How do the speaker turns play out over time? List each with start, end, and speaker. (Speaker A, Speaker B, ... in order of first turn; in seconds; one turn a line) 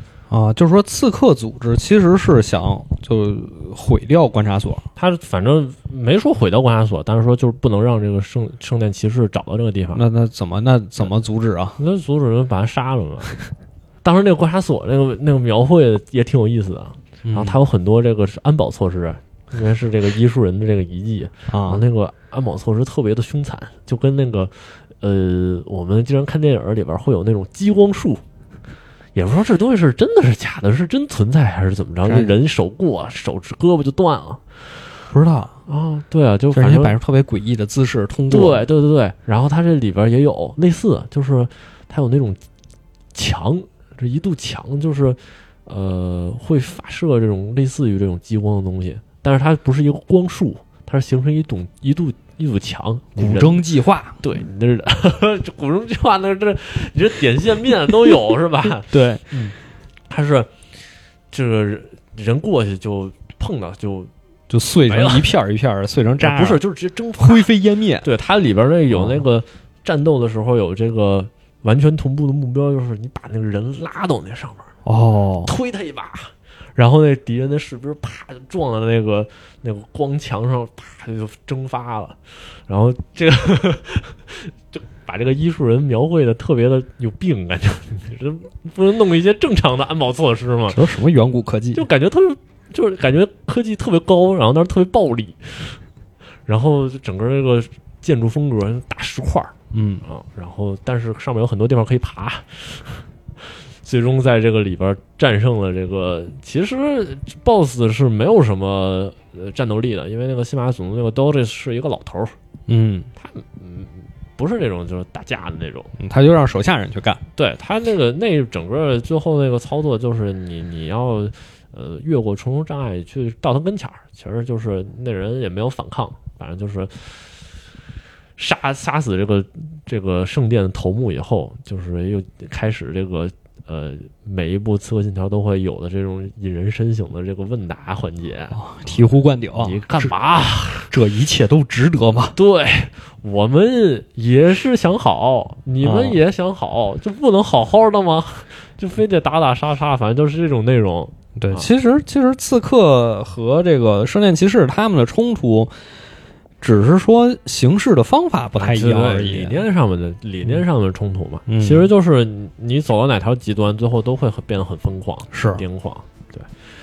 Speaker A: 0.3-4.8
Speaker B: 5.0-10.0
Speaker A: 9.9-11.8
Speaker B: 11.8-13.4
Speaker B: 14.0-28.2
Speaker A: 17.2-17.6
Speaker A: 21.5-21.8
Speaker B: 29.1-34.7
Speaker A: 32.0-32.3
Speaker A: 35.1-35.5
Speaker B: 35.7-37.0
Speaker A: 36.5-38.6
Speaker B: 38.3-42.4
Speaker B: 43.1-53.7
Speaker A: 53.2-54.2
Speaker B: 54.2-59.5
Speaker A: 58.9-59.4
Speaker B: 60.1-60.5
Speaker B: 61.3-64.1
Speaker A: 64.5-66.6
Speaker B: 64.9-65.3
Speaker B: 66.2-67.5
Speaker A: 67.2-68.1
Speaker B: 68.0-74.7
Speaker A: 68.9-69.2
Speaker A: 74.8-75.5
Speaker B: 75.4-90.8
Speaker A: 90.7-91.8
Speaker B: 91.7-95.8
Speaker B: 96.5-99.5
Speaker A: 99.7-100.0
Speaker B: 100.0-112.3
Speaker A: 112.7-113.1
Speaker B: 113.2-115.9
Speaker A: 116.0-117.2
Speaker B: 117.4-127.3
Speaker B: 128.4-138.6
Speaker A: 138.5-140.1
Speaker B: 139.5-140.9
Speaker A: 140.9-142.4
Speaker B: 142.4-151.7
Speaker A: 145.8-146.2
Speaker A: 151.4-155.7
Speaker A: 156.6-159.6
Speaker B: 158.6-166.5
Speaker A: 161.5-161.9
Speaker A: 165.3-165.6